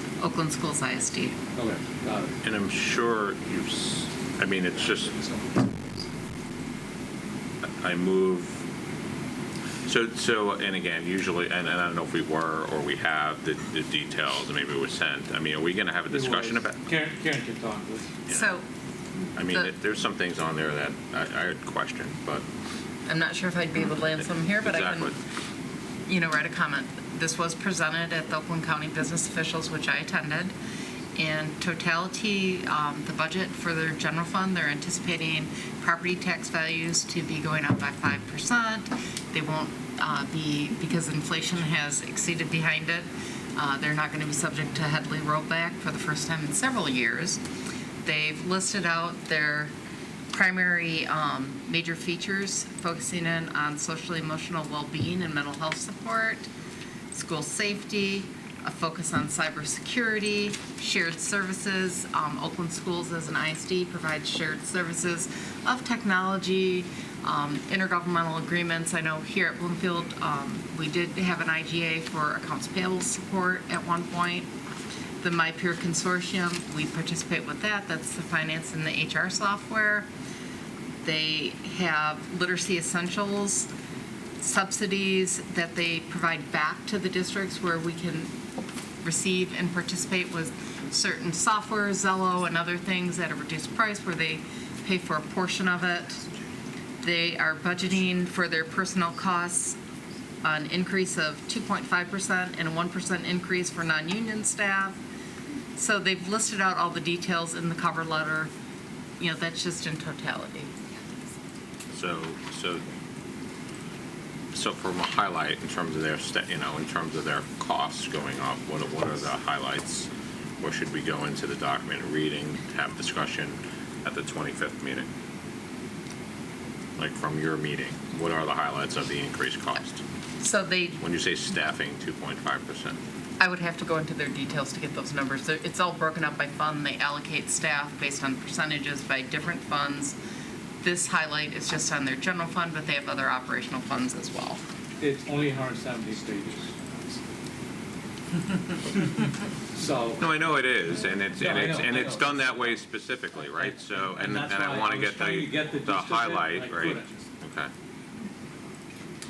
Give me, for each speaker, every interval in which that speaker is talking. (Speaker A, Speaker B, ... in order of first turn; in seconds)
Speaker A: 0.2-1.4, 18.3-18.6, 19.4-19.7, 23.1-25.1, 26.1-30.5, 31.1-47.4, 48.0-49.7, 50.3-56.5, 57.1-74.5, 75.2-80.1, 81.0-83.7, 84.4-88.3, 89.0-96.2, 97.0-99.8, 100.4-105.0, 105.8-108.5, 109.2-110.7, 130.4-131.0, 133.4-140.2, 140.8-144.6
Speaker B: 1.5-2.3, 16.1-18.1, 145.0-146.9, 149.7-150.3, 151.3-152.8, 153.6-157.2
Speaker C: 2.4-5.2, 7.6-8.6, 9.8-16.8, 19.4-22.4, 24.2-25.2, 111.9-112.8, 114.5-120.1, 120.6-125.1, 127.0-130.0, 131.0-133.0, 150.2-157.7